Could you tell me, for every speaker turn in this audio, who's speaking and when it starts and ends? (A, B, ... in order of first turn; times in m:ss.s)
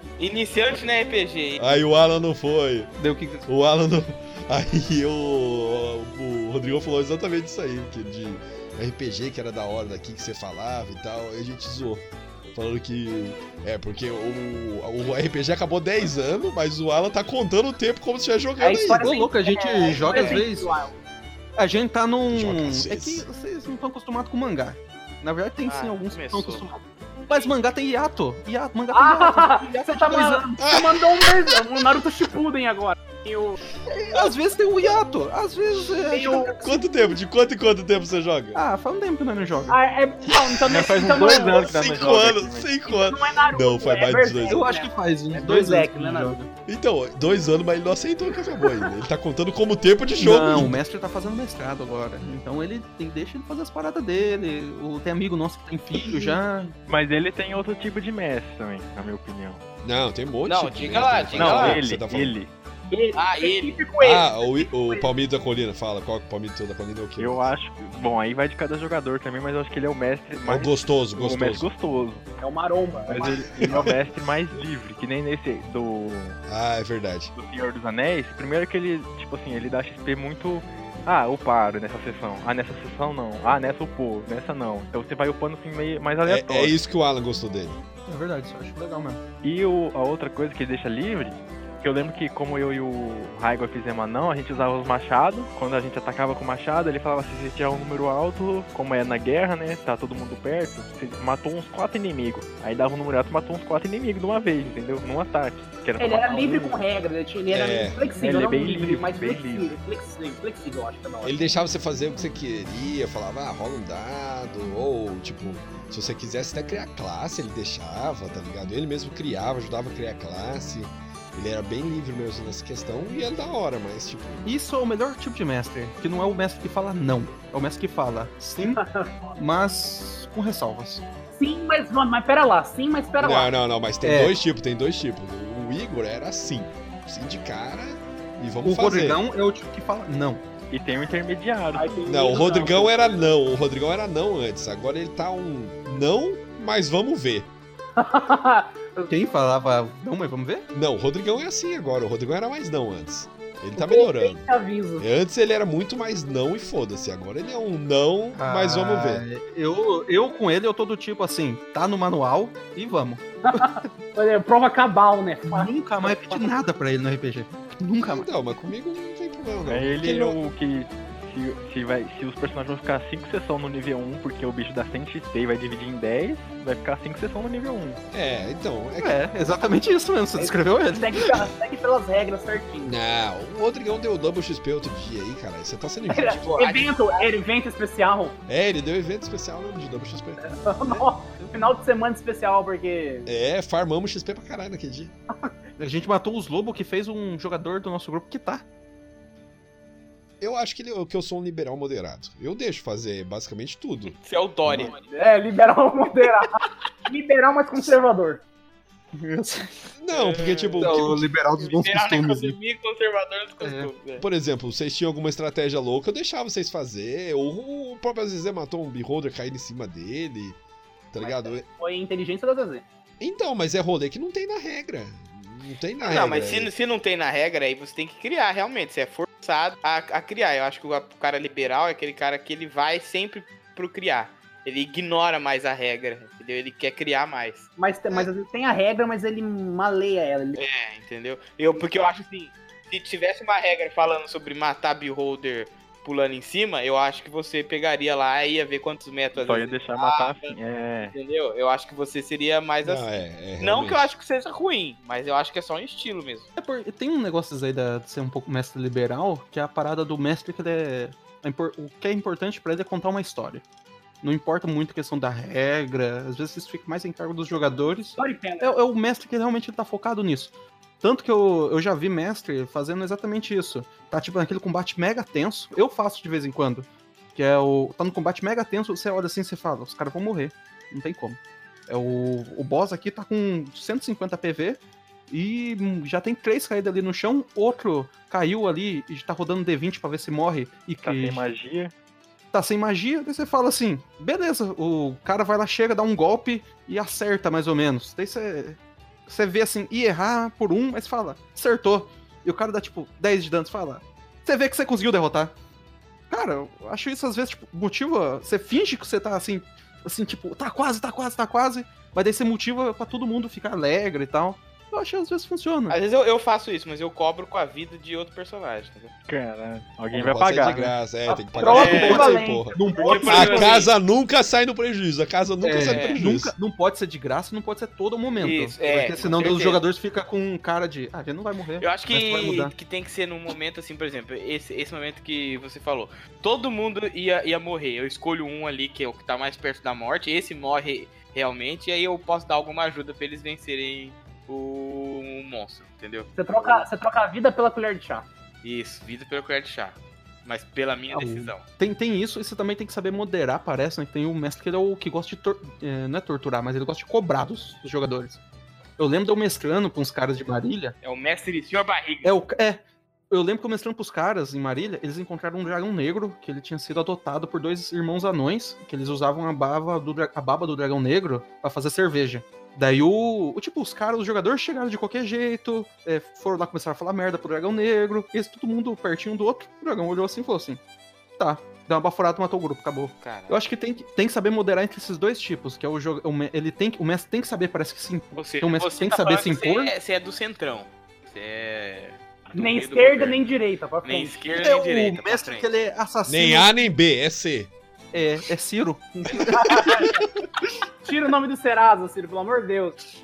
0:00.2-0:01.8 A
0:01.6-0:02.9 B
0:03.0-0:03.5 C
0:03.5-0:19.1 B
0:18.6-0:21.0 D
0:19.0-0:20.7 C
0:19.9-0:20.4 A
0:21.6-0:30.5 C
0:22.3-0:23.2 B
0:25.6-0:26.7 A
0:28.9-0:33.6 D
0:30.6-0:32.0 B
0:33.9-0:36.6 C
0:36.1-0:36.9 D
0:36.6-0:38.6 B
0:38.6-0:39.8 C
0:39.7-0:41.7 D
0:40.7-0:42.7 E
0:41.3-0:44.6 B
0:42.9-0:46.5 D
0:44.4-0:46.4 C
0:46.7-0:50.8 B
0:50.1-0:56.8 C
0:56.9-0:59.6 E
0:59.8-1:02.4 B
1:00.5-1:01.8 A
1:01.4-1:02.5 E
1:02.9-1:05.1 D
1:03.2-1:03.8 A
1:04.0-1:07.5 B
1:07.2-1:12.3 E
1:10.4-1:11.7 B
1:12.4-1:13.9 D
1:13.1-1:16.4 E
1:13.2-1:14.0 B
1:16.5-1:17.3 B
1:17.4-1:26.8 E
1:26.2-1:27.8 B
1:28.1-1:29.2 C
1:29.4-1:46.8 E
1:46.0-1:51.4 D
1:47.5-1:48.0 B
1:48.2-1:49.8 E
1:51.2-2:04.6 B
2:04.4-2:08.8 C
2:08.8-2:09.2 D
2:09.4-2:11.0 C
2:11.4-2:13.5 D
2:13.2-2:19.2 B
2:14.0-2:14.3 C
2:18.6-2:20.4 C
2:20.7-2:22.7 E
2:21.7-2:23.2 D
2:22.1-2:27.5 B
2:28.0-2:29.1 D
2:29.1-2:30.7 C
2:30.7-2:34.5 B
2:33.8-2:35.1 D
2:35.0-2:39.2 B
2:38.3-2:43.9 C
2:43.5-2:46.5 D
2:45.5-2:48.3 C
2:48.0-2:50.4 B
2:49.7-2:58.0 E
2:58.1-2:59.2 B
2:59.0-3:01.4 C
3:00.4-3:03.0 D
3:02.8-3:06.6 B
3:06.1-3:08.4 D
3:06.4-3:06.9 A
3:08.5-3:11.1 B
3:10.4-3:13.3 D
3:13.3-3:15.1 B
3:15.8-3:18.6 C
3:20.4-3:24.9 B
3:24.1-3:25.1 A
3:25.1-3:28.4 D
3:29.1-3:29.9 C
3:30.0-3:31.2 B
3:30.1-3:31.1 A
3:30.8-3:32.6 C
3:31.6-3:34.3 A
3:33.6-3:33.9 C
3:34.2-3:40.6 B
3:41.1-3:41.7 B
3:41.2-3:42.8 D
3:43.2-3:46.7 B
3:46.0-3:58.3 A
3:57.8-4:00.6 D
4:00.6-4:10.6 A
4:09.4-4:11.2 E
4:11.1-4:16.5 A
4:12.8-4:14.1 B
4:16.6-4:23.6 C
4:24.2-4:51.4 C
4:28.2-4:28.8 D
4:51.0-4:51.9 E
4:52.5-5:05.6 C
5:06.3-5:16.0 C
5:15.9-5:19.1 A
5:19.3-5:21.0 E
5:20.1-5:26.5 B
5:21.3-5:23.4 D
5:21.6-5:22.3 A
5:21.7-5:23.8 C
5:23.0-5:23.9 A
5:25.6-5:32.7 C
5:25.9-5:26.2 A
5:28.4-5:29.8 A
5:31.8-5:46.9 A
5:46.4-5:48.3 D
5:48.6-5:51.6 A
5:51.1-5:58.4 C
5:59.0-6:01.0 C
6:01.0-6:02.3 A
6:02.2-6:20.8 C
6:21.4-6:29.9 C
6:23.2-6:23.6 A
6:28.4-6:33.4 A
6:32.5-6:34.4 D
6:34.0-6:35.7 A
6:34.6-6:36.7 C
6:36.3-6:37.7 B
6:38.1-6:40.1 C
6:39.3-6:40.2 D
6:41.0-6:43.0 D